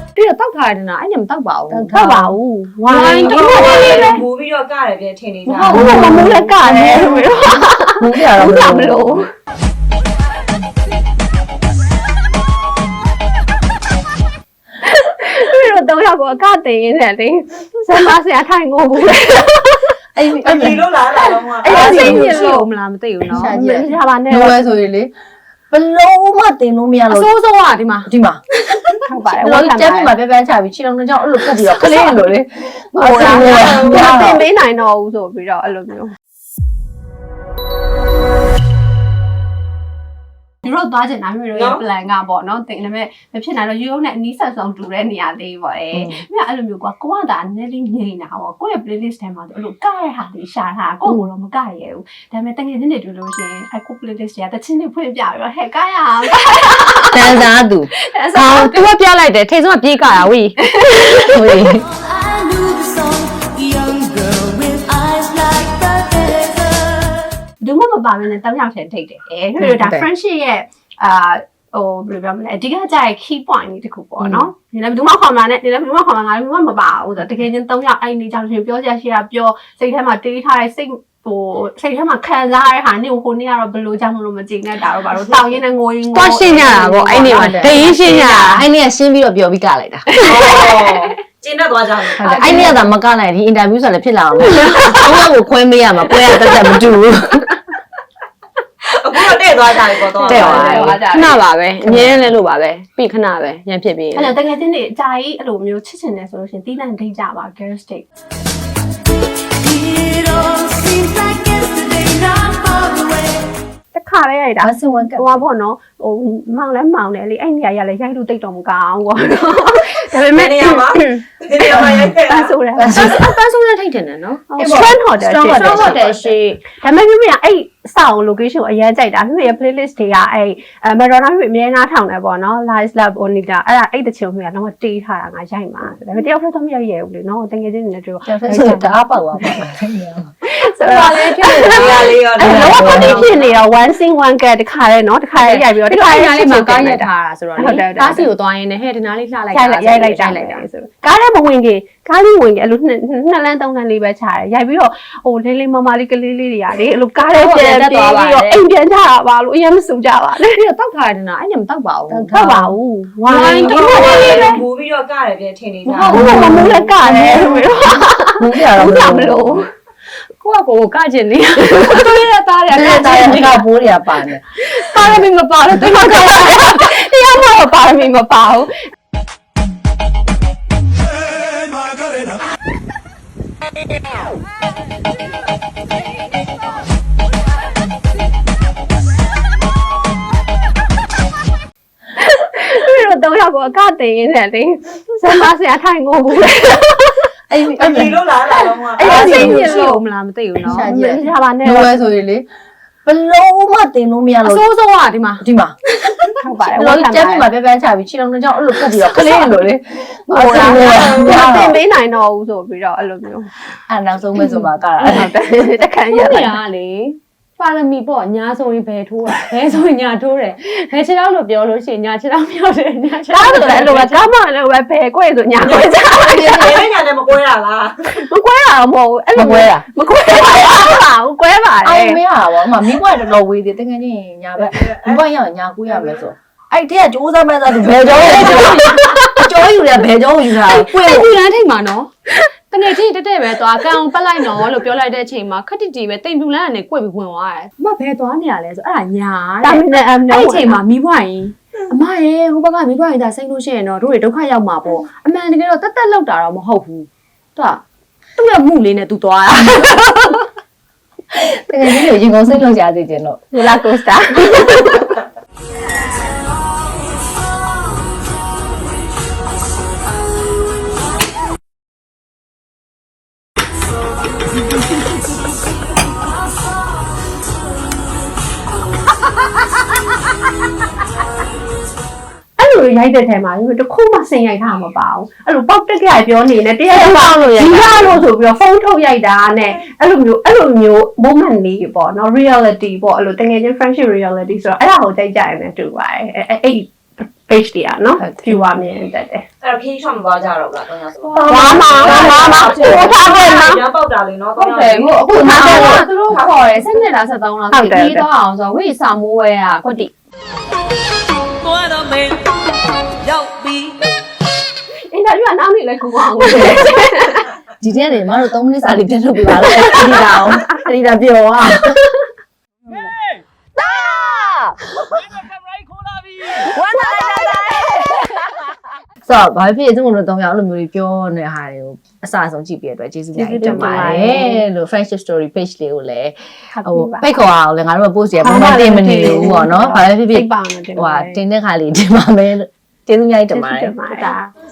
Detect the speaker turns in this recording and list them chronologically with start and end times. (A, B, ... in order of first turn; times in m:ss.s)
0:00.2-0:02.3 A
0:01.7-0:04.2 B
0:02.9-0:04.2 A
0:02.9-0:05.8 C
0:05.5-0:09.3 B
0:05.7-0:07.2 D
0:05.8-0:07.1 A
0:08.0-0:09.2 D
0:14.8-0:20.0 B
0:20.2-0:20.9 D
0:20.4-0:22.1 C
0:21.1-0:22.7 B
0:21.7-0:23.6 A
0:21.8-0:22.4 D
0:23.3-0:25.1 D
0:23.5-0:24.6 B
0:25.7-0:27.3 D
0:27.1-0:28.1 A
0:28.0-0:28.4 D
0:29.1-0:30.1 B
0:29.3-0:34.4 D
0:33.0-0:36.1 B
0:33.1-0:34.2 C
0:40.6-0:58.7 B
0:41.5-0:41.8 C
0:45.9-0:46.2 D
0:57.1-0:57.9 D
0:58.3-1:00.6 A
1:00.6-1:01.4 B
1:01.3-1:01.8 D
1:01.9-1:07.2 E
1:07.6-1:28.5 B
1:09.6-1:10.1 D
1:14.2-1:14.5 D
1:26.1-1:28.6 A
1:27.2-1:30.1 D
1:30.2-1:31.2 B
1:30.2-1:32.7 C
1:32.1-1:32.8 B
1:32.2-1:32.7 A
1:32.2-1:37.6 D
1:34.8-1:35.1 B
1:38.8-1:40.7 C
1:40.2-1:44.3 A
1:40.3-1:41.0 D
1:40.4-1:41.4 B
1:41.8-1:42.2 D
1:44.2-1:48.1 B
1:49.6-1:53.5 E
1:53.9-2:03.4 B
1:54.6-1:55.4 D
2:00.3-2:03.1 C
2:02.8-2:03.2 D
2:03.1-2:04.5 A
2:04.5-2:06.0 B
2:04.6-2:06.4 D
2:05.5-2:06.6 A
2:06.7-2:19.6 B
2:18.2-2:20.3 D
2:20.4-2:28.3 B
2:20.6-2:23.2 A
2:21.7-2:23.5 C
2:22.4-2:23.3 D
2:25.4-2:30.6 A
2:29.5-2:40.6 B
2:37.2-2:38.6 A
2:40.4-2:42.7 A
2:42.1-2:44.6 B
2:43.2-2:44.5 A
2:43.3-2:46.2 C
2:45.8-2:49.7 B
2:46.1-2:46.8 A
2:46.1-2:47.6 D
2:48.4-2:49.6 D
2:50.4-2:53.7 A
2:52.7-2:54.4 D
2:54.6-2:57.0 A
2:55.0-2:55.2 D
2:55.8-2:58.7 B
3:12.2-3:17.3 B
3:17.5-3:18.2 D
3:17.7-3:19.1 C
3:18.5-3:20.0 B
3:19.0-3:19.9 D
3:19.0-3:20.9 A
3:20.6-3:22.5 D
3:20.7-3:22.0 B
3:23.0-3:24.6 D
3:24.4-3:25.4 A
3:25.4-3:25.8 D
3:26.4-3:27.5 B
3:26.7-3:31.8 D
3:29.0-3:29.5 A
3:30.3-3:30.8 A
3:30.4-3:33.5 B
3:31.1-3:31.3 C
3:33.9-3:35.3 D
3:35.0-3:35.4 A
3:35.0-3:36.6 B
3:36.1-3:44.3 A
3:43.3-3:46.9 B
3:45.6-3:48.1 C
3:48.1-3:52.2 B
3:49.4-3:49.8 D
3:51.8-4:01.3 D
3:54.6-3:55.2 C
3:55.9-3:56.2 C
3:58.2-3:59.1 A
4:00.7-4:02.1 A
4:02.7-4:17.8 A
4:09.6-4:10.8 B
4:18.4-4:20.4 A
4:21.3-4:23.4 D
4:23.5-4:25.2 B
4:42.6-4:59.4 B
4:46.9-4:48.2 D
4:58.2-4:58.6 A
4:59.6-5:05.3 C
5:01.2-5:03.6 A
5:01.4-5:03.8 B
5:04.6-5:10.1 A
5:05.3-5:06.1 D
5:05.4-5:06.0 B
5:07.7-5:08.2 B
5:11.9-5:12.2 E
5:15.1-5:17.5 B
5:17.8-5:22.0 D
5:23.9-5:24.5 D
5:29.2-5:44.0 D
5:33.4-5:34.6 B
5:36.7-5:37.3 B
5:38.4-5:41.4 B
5:43.5-5:44.5 B